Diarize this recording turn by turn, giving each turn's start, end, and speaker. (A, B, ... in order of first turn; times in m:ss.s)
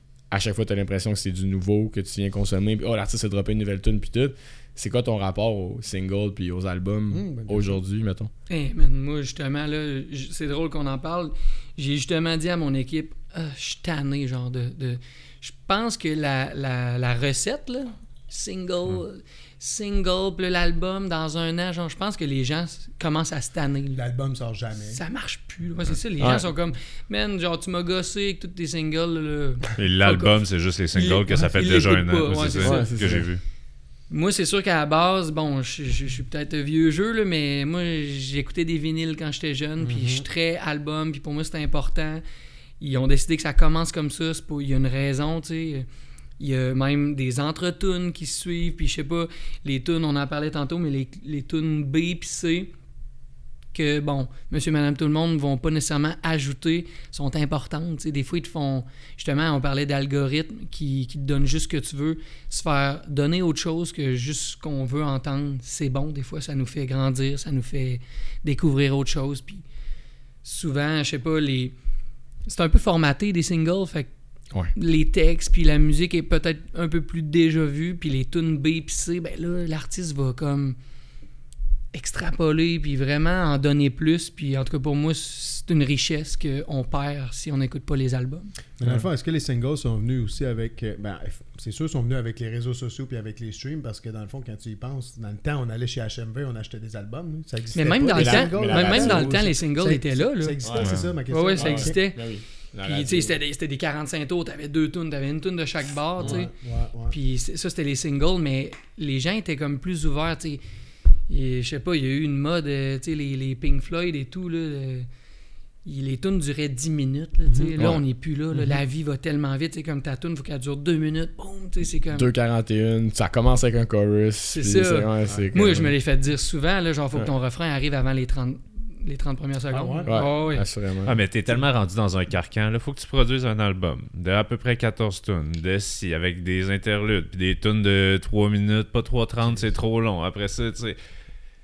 0:00.3-0:08.3 A
0:07.1-0:07.8 B
0:08.5-0:24.0 C
0:23.9-0:25.0 B
0:24.9-0:30.4 C
0:26.2-0:26.4 A
0:29.8-0:33.4 D
0:30.9-0:33.1 C
0:32.6-0:33.3 A
0:34.1-0:42.2 C
0:39.8-0:40.2 B
0:42.8-0:45.9 C
0:46.4-0:52.7 C
0:53.7-1:09.6 C
1:10.4-1:11.8 C
1:12.4-1:14.1 C
1:14.7-1:20.8 C
1:21.9-1:28.5 C
1:28.8-1:42.0 B
1:37.7-1:50.6 C
1:38.1-1:39.5 A
1:40.6-1:43.4 A
1:40.8-1:41.0 D
1:46.2-1:47.2 B
1:46.2-1:46.4 A
1:51.3-1:55.1 C
1:55.8-2:02.3 C
1:57.4-1:57.7 B
1:57.8-1:58.0 A
2:02.1-2:06.0 A
2:04.5-2:10.7 C
2:09.7-2:10.2 B
2:10.0-2:11.2 A
2:11.0-2:21.0 D